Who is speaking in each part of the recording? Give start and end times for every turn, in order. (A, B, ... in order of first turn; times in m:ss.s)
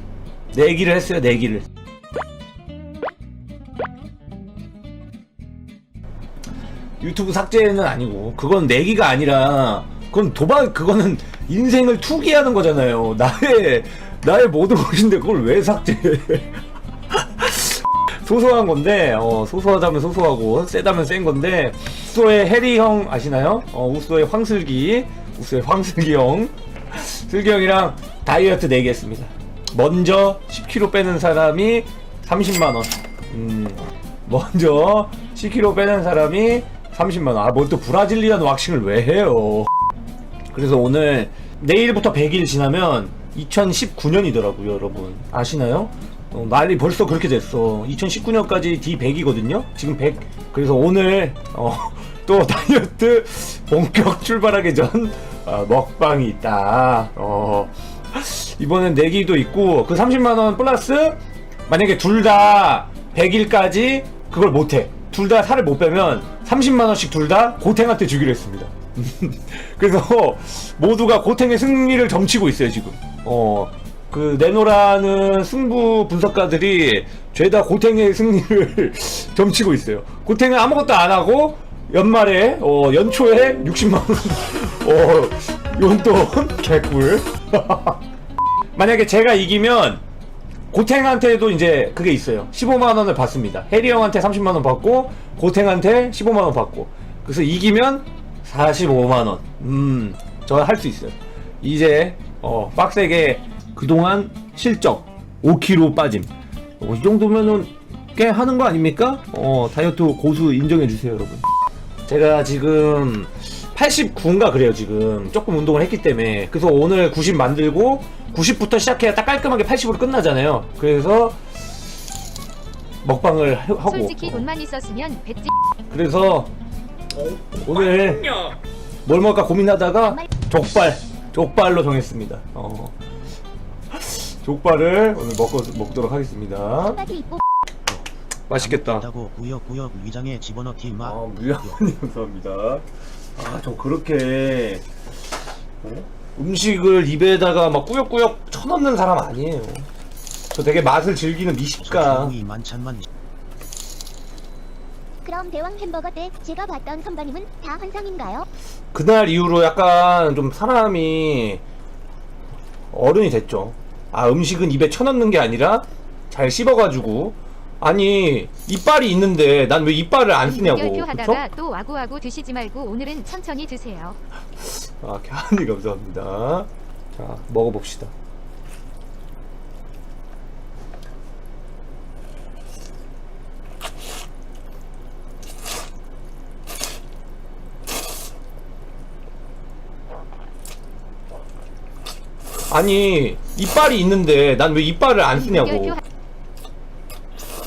0:00.5-0:01.6 A
0:07.0-0:39.7 A
0:40.5-1:28.0 A
1:28.8-1:30.0 A
1:30.7-1:51.5 A
1:52.1-2:01.4 A
2:03.0-2:04.5 A
2:03.8-2:05.5 B
2:05.9-2:06.5 A
2:07.2-2:13.0 A
2:13.9-2:17.0 A
2:16.8-2:17.4 C
2:17.9-2:21.8 D
2:18.5-2:19.1 A
2:21.0-2:22.8 A
2:23.4-2:24.8 A
2:25.8-2:29.9 A
2:30.5-2:32.4 A
2:31.8-2:33.1 D
2:35.2-2:38.5 C
2:38.9-2:41.6 A
2:42.9-2:51.4 A
2:50.4-2:54.2 B
2:54.6-2:58.1 A
3:12.7-3:16.0 A
3:15.5-3:16.0 B